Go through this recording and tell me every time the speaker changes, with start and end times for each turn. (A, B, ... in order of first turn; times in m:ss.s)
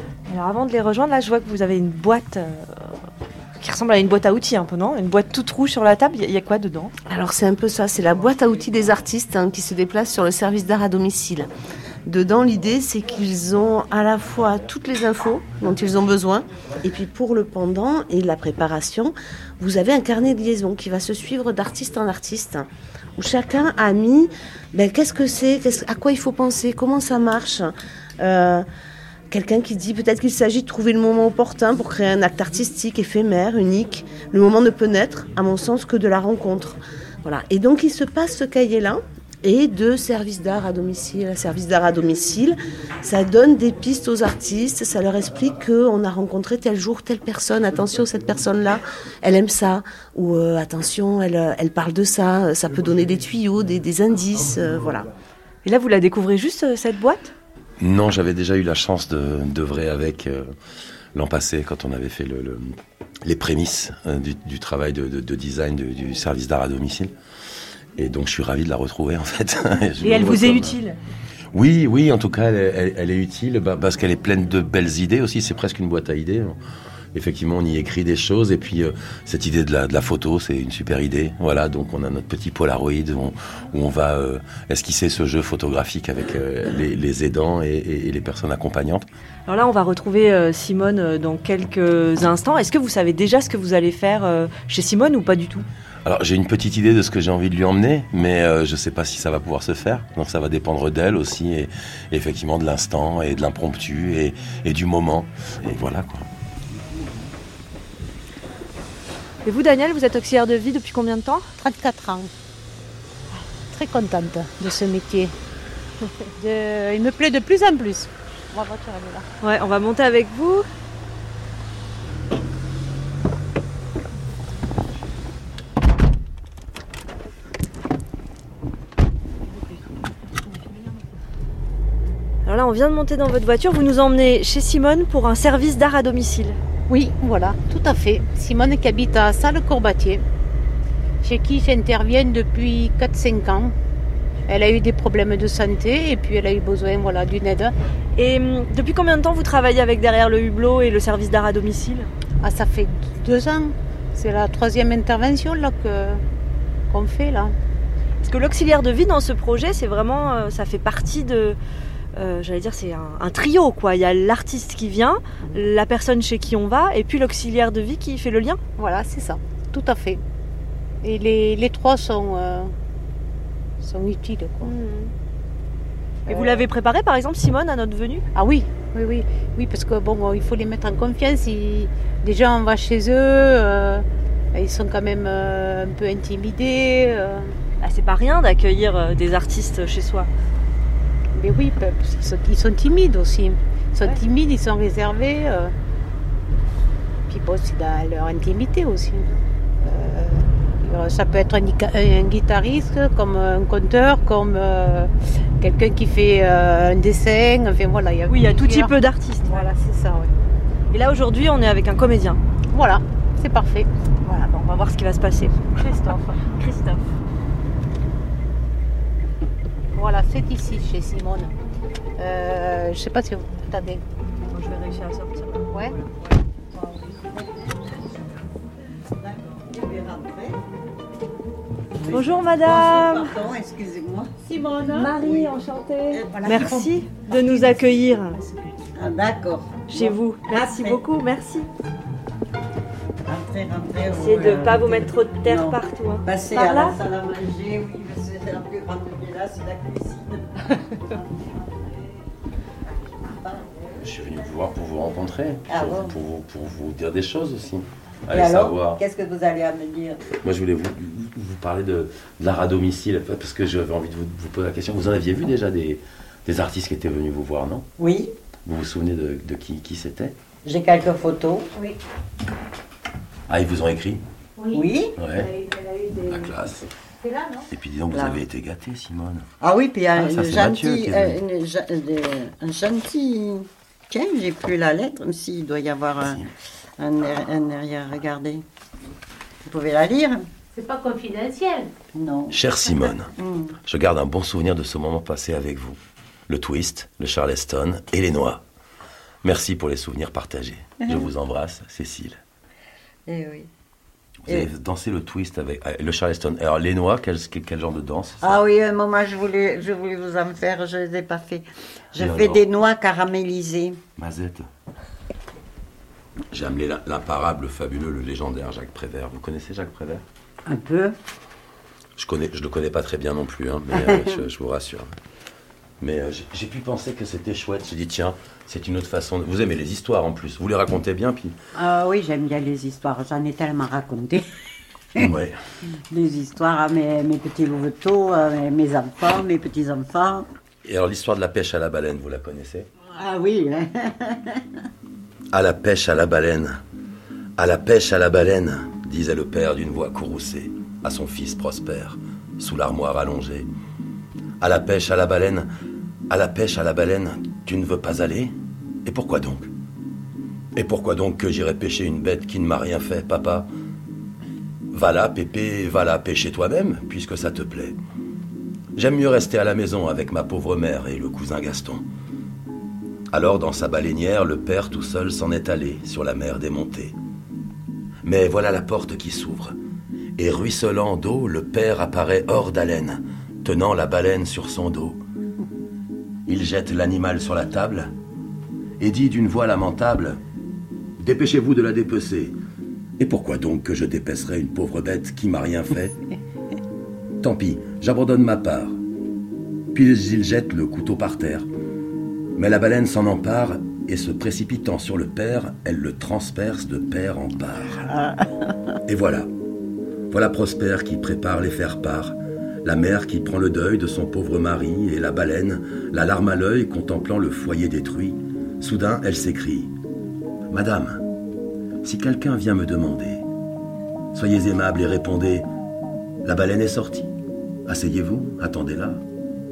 0:00.3-0:02.9 A
0:03.6-0:06.9 A
0:07.1-0:11.5 B
0:12.1-0:28.7 B
0:29.3-0:55.1 B
0:55.6-0:57.3 A
0:57.8-1:00.5 C
1:01.1-1:07.1 C
1:08.0-1:10.8 C
1:10.0-1:11.0 A
1:11.5-1:16.6 C
1:17.1-1:29.1 C
1:29.5-1:35.7 A
1:36.0-1:46.2 C
1:49.4-1:51.5 A
1:51.6-1:52.3 D
1:53.4-1:55.3 D
1:56.4-1:59.3 D
1:59.4-2:00.7 A
2:12.5-2:16.6 A
2:16.9-2:20.2 D
2:21.2-2:23.7 D
2:24.5-2:27.7 D
2:28.2-2:32.1 A
2:32.4-2:36.2 D
2:36.9-2:37.5 D
2:38.2-2:41.6 A
2:42.2-2:48.6 A
2:48.8-2:50.2 D
2:51.0-2:52.7 D
2:53.8-2:55.1 D
2:56.3-2:56.6 D
2:56.3-2:58.2 A
2:58.3-3:07.6 D
3:07.8-3:10.3 A
3:11.3-3:15.7 D
3:17.3-3:30.3 D
3:28.3-3:29.7 A
3:30.9-3:32.4 A
3:32.7-3:33.9 D
3:34.2-3:37.0 A
3:35.7-3:36.4 D
3:40.0-3:41.5 D
3:42.2-3:44.0 D
3:44.5-3:45.6 A
3:46.8-3:47.2 E
3:49.2-3:50.6 E
3:52.0-3:56.9 E
3:52.1-3:53.3 A
3:55.0-3:55.7 A
3:56.4-3:58.4 A
3:56.5-3:56.9 D
3:57.4-3:58.6 D
3:59.0-4:01.0 E
3:59.9-4:01.7 A
4:03.3-4:10.5 E
4:04.1-4:07.0 A
4:11.0-4:11.4 E
4:13.1-4:13.7 E
4:14.0-4:19.0 C
4:15.7-4:16.2 E
4:18.3-4:20.2 E
4:20.4-4:27.9 C
4:28.0-4:28.3 E
4:28.6-4:30.4 C
4:30.6-4:31.9 E
4:33.5-4:34.2 C
4:34.6-4:35.4 E
4:35.2-4:35.6 C
4:36.2-4:36.9 C
4:37.7-4:39.5 C
4:38.1-4:38.4 E
4:39.6-4:46.4 E
4:40.2-4:41.4 C
4:46.2-4:46.5 C
4:47.0-4:48.6 E
4:49.7-4:50.4 E
4:50.8-4:51.9 D
4:52.1-4:53.8 E
4:52.5-4:53.3 C
4:53.9-4:56.0 C
4:56.5-4:58.6 C
4:59.4-5:02.4 C
5:01.0-5:01.3 E
5:03.3-5:03.7 E
5:04.5-5:08.6 C
5:08.4-5:14.0 E
5:12.2-5:12.6 C
5:14.2-5:14.7 C
5:16.5-5:20.2 C
5:20.7-5:21.2 E
5:22.2-5:25.1 C
5:24.0-5:24.3 E
5:26.0-5:31.6 C
5:31.8-5:34.4 E
5:35.2-5:35.6 C
5:36.1-5:40.5 E
5:40.8-5:42.9 C
5:43.1-5:44.6 E
5:45.5-5:46.8 C
5:47.6-5:53.7 C
5:54.6-5:55.7 C
5:56.3-5:58.5 C
5:59.0-5:59.7 C
6:00.8-6:03.7 C
6:04.9-6:08.0 C
6:09.0-6:12.0 C
6:13.3-6:17.2 C
6:18.2-6:19.8 C
6:20.4-6:25.2 C
6:26.5-6:28.1 C
6:29.0-6:30.4 C
6:31.2-6:32.6 C
6:33.2-6:36.2 C
6:37.4-6:39.0 C
6:39.9-6:41.7 C
6:42.6-6:48.0 C
6:47.8-6:48.9 E
6:49.1-6:49.5 C
6:50.3-6:59.9 C
7:00.7-7:01.2 C
7:02.0-7:03.4 C
7:04.3-7:05.7 C
7:06.4-7:07.3 C
7:07.9-7:09.2 C